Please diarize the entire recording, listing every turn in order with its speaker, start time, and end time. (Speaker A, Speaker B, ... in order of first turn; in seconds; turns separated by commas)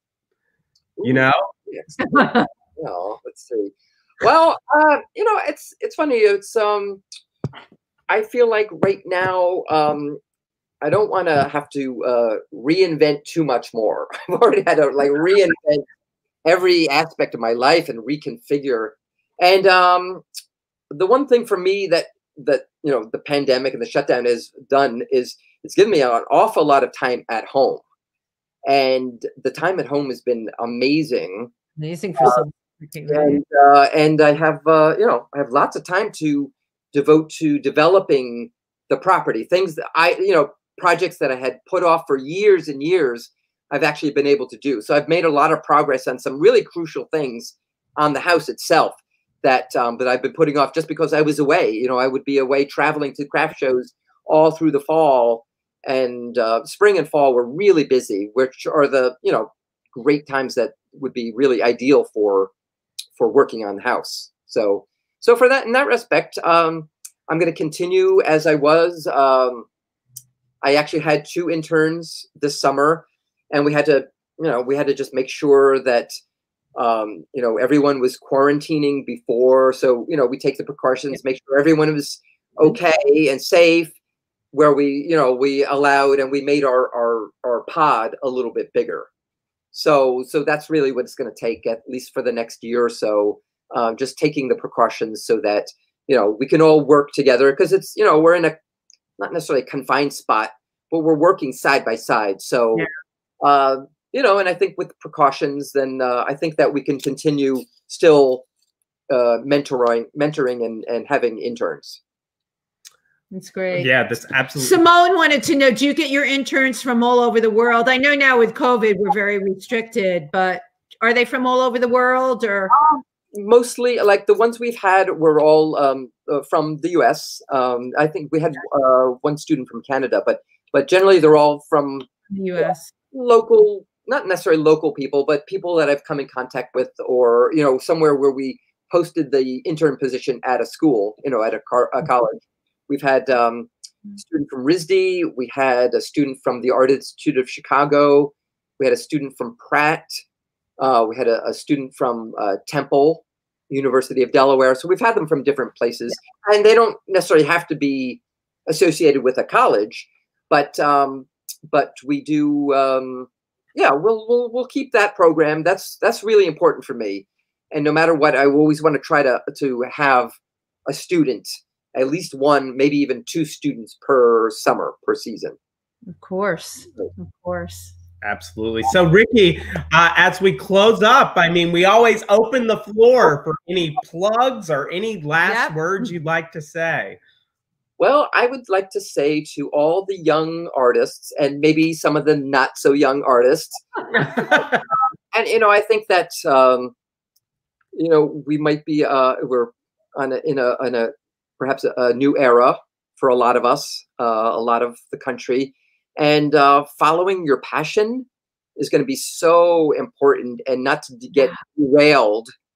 Speaker A: 1.0-7.0, Speaker B: 1.0-1.4, Speaker C: 2.0-2.5, Speaker A: 8.1-10.2, Speaker A: 10.8-15.8, Speaker A: 16.4-20.2, Speaker A: 20.9-27.8, Speaker A: 28.6-31.5, Speaker C: 31.8-33.4, Speaker A: 33.1-62.5, Speaker A: 63.2-69.7, Speaker A: 70.6-76.1, Speaker A: 76.8-83.9, Speaker A: 84.5-89.1, Speaker A: 89.7-98.5, Speaker A: 99.2-102.9, Speaker A: 103.4-108.4, Speaker A: 109.1-112.0, Speaker C: 113.3-113.9, Speaker B: 113.7-114.8, Speaker C: 114.5-122.7, Speaker A: 122.7-132.1, Speaker C: 132.3-132.9, Speaker A: 133.1-150.1, Speaker A: 150.8-170.3, Speaker A: 170.9-175.6, Speaker C: 176.1-177.9, Speaker B: 178.2-187.2, Speaker C: 185.4-186.1, Speaker A: 188.0-194.6, Speaker B: 194.2-194.8, Speaker A: 195.3-196.9, Speaker A: 197.9-212.5